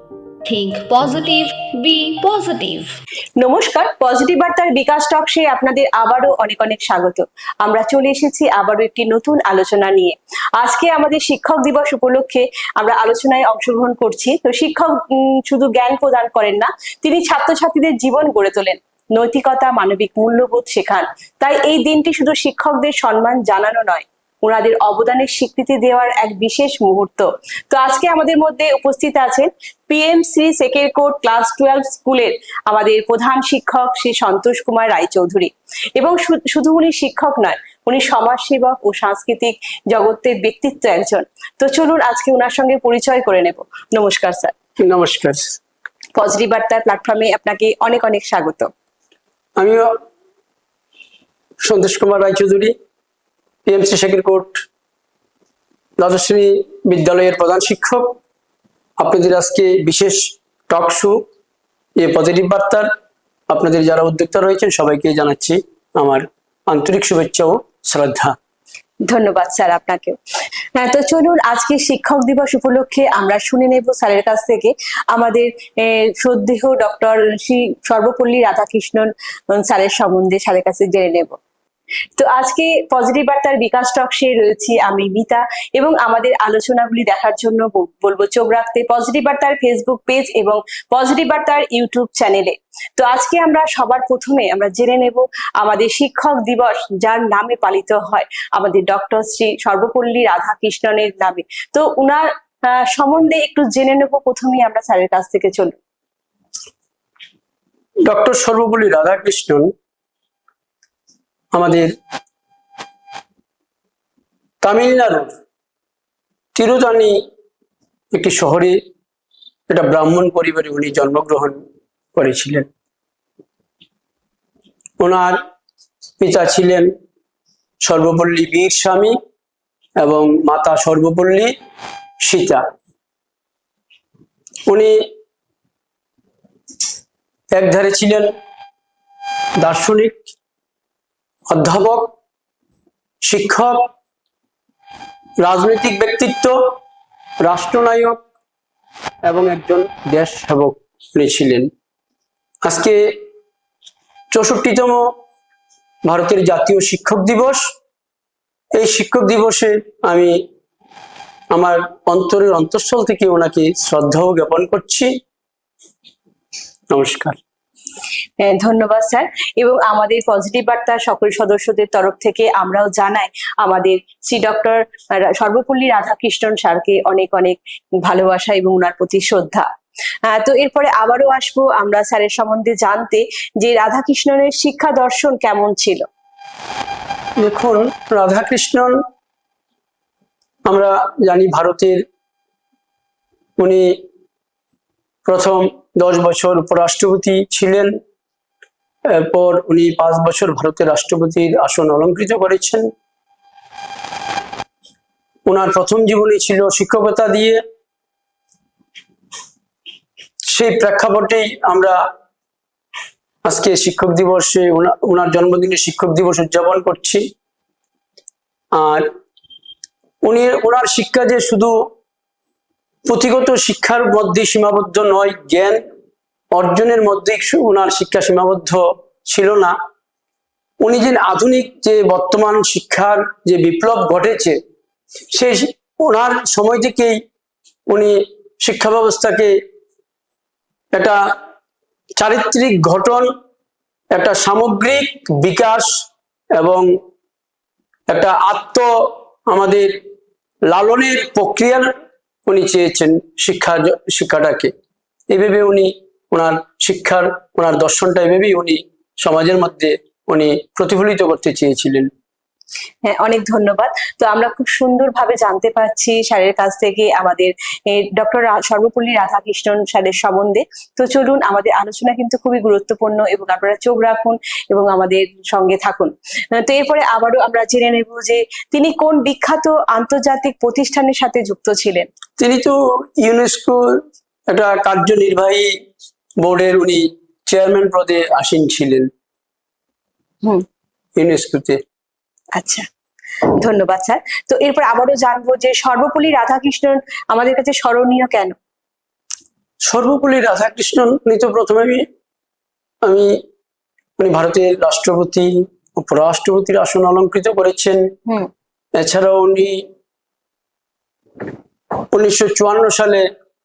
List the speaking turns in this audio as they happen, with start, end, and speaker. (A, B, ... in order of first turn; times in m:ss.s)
0:00.4-0:03.0 A
0:03.4-0:44.5 B
0:44.8-0:45.5 C
0:46.2-0:48.7 B
0:49.6-0:49.9 C
0:51.6-0:52.7 C
0:53.7-0:54.6 C
0:56.0-0:58.2 C
0:59.0-1:01.2 C
1:02.0-1:02.9 C
1:03.5-1:08.3 C
1:09.1-1:10.2 B
1:10.8-1:21.4 B
1:22.2-1:45.8 B
1:48.0-1:49.7 C
1:51.5-1:51.9 C
1:54.6-1:55.3 C
1:56.6-1:57.2 C
1:58.1-1:58.8 C
1:59.7-2:01.6 C
2:02.2-2:02.7 C
2:05.0-2:05.4 C
2:06.2-2:06.9 C
2:07.8-2:09.2 C
2:10.0-2:11.5 C
2:12.2-2:12.6 C
2:14.7-2:14.9 C
2:17.5-2:18.3 C
2:19.6-2:20.2 C
2:21.5-2:22.1 C
2:23.3-2:23.9 C
2:25.4-2:26.6 C
2:27.4-2:28.2 C
2:29.3-2:31.7 C
2:32.6-2:33.0 C
2:34.3-2:35.0 C
2:36.0-2:37.7 C
2:38.7-2:40.4 C
2:41.5-2:45.1 C
2:46.9-2:47.4 C
2:48.4-2:59.7 B
3:00.3-3:06.0 B
3:07.4-3:09.0 C
3:10.7-3:12.0 C
3:13.6-3:14.0 C
3:15.3-3:17.9 C
3:19.1-3:22.9 C
3:25.5-3:27.6 C
3:30.5-3:32.0 C
3:33.5-3:37.2 C
3:38.8-3:39.1 C
3:40.2-3:41.7 C
3:43.1-3:45.8 C
3:46.5-3:49.7 C
3:50.8-3:54.6 C
3:55.3-3:57.2 C
3:57.9-3:59.6 C
4:00.9-4:01.2 C
4:02.2-4:03.3 C
4:04.1-4:05.9 C
4:06.6-4:06.9 C
4:08.1-4:08.9 C
4:09.5-4:09.9 C
4:10.7-4:11.9 C
4:12.5-4:14.7 C
4:15.3-4:22.1 C
4:23.1-4:42.1 B
4:42.4-4:43.8 C
4:44.5-4:45.7 C
4:46.4-4:49.1 C
4:51.2-4:51.8 C
4:52.6-4:52.9 B
4:53.6-4:58.5 B
4:59.9-5:02.0 C
5:03.0-5:03.4 C
5:04.2-5:08.0 C
5:09.0-5:09.8 C
5:12.1-5:13.2 C